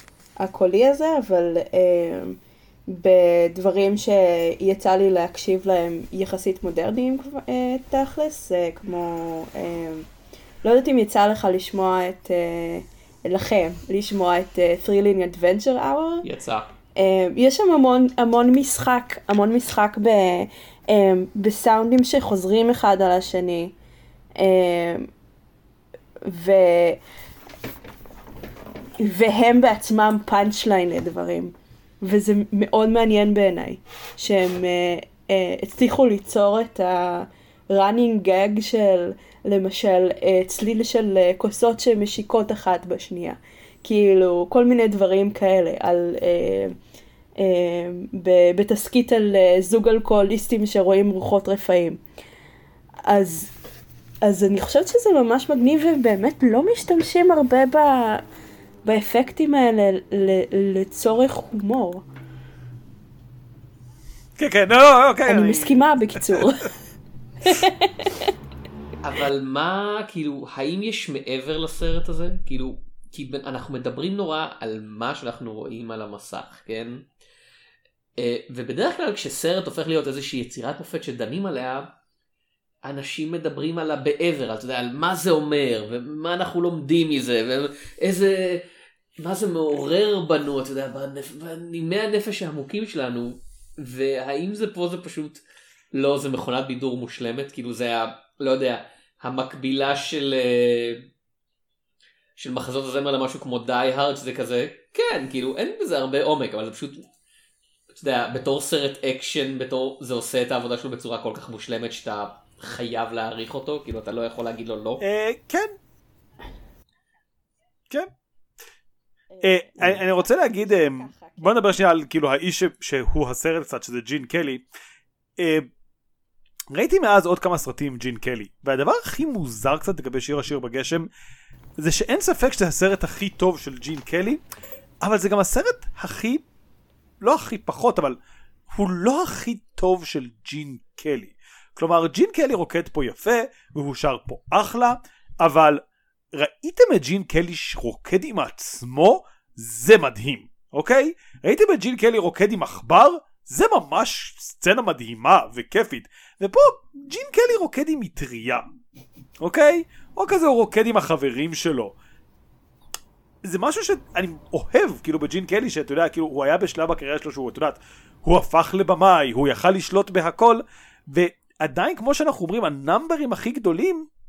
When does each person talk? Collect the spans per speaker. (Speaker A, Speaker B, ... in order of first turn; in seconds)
Speaker A: 0.4-10.1, 10.6-16.2, 17.0-23.7, 24.4-25.1, 26.2-27.0, 29.0-46.7, 47.4-52.0, 53.0-53.5, 54.2-58.2, 58.8-62.0, 65.3-66.7, 67.4-68.3, 119.3-121.5
Speaker B: 16.2-16.7, 69.0-77.0, 78.2-81.9, 82.8-88.7, 89.2-95.4, 95.9-101.1, 102.4-107.0, 107.9-115.0
Speaker C: 64.4-65.8, 115.0-115.7, 119.4-124.6, 125.4-125.7, 126.7-131.1, 131.8-134.4, 135.0-136.4, 137.2-138.2, 138.7-158.7, 159.4-161.9, 163.4-174.1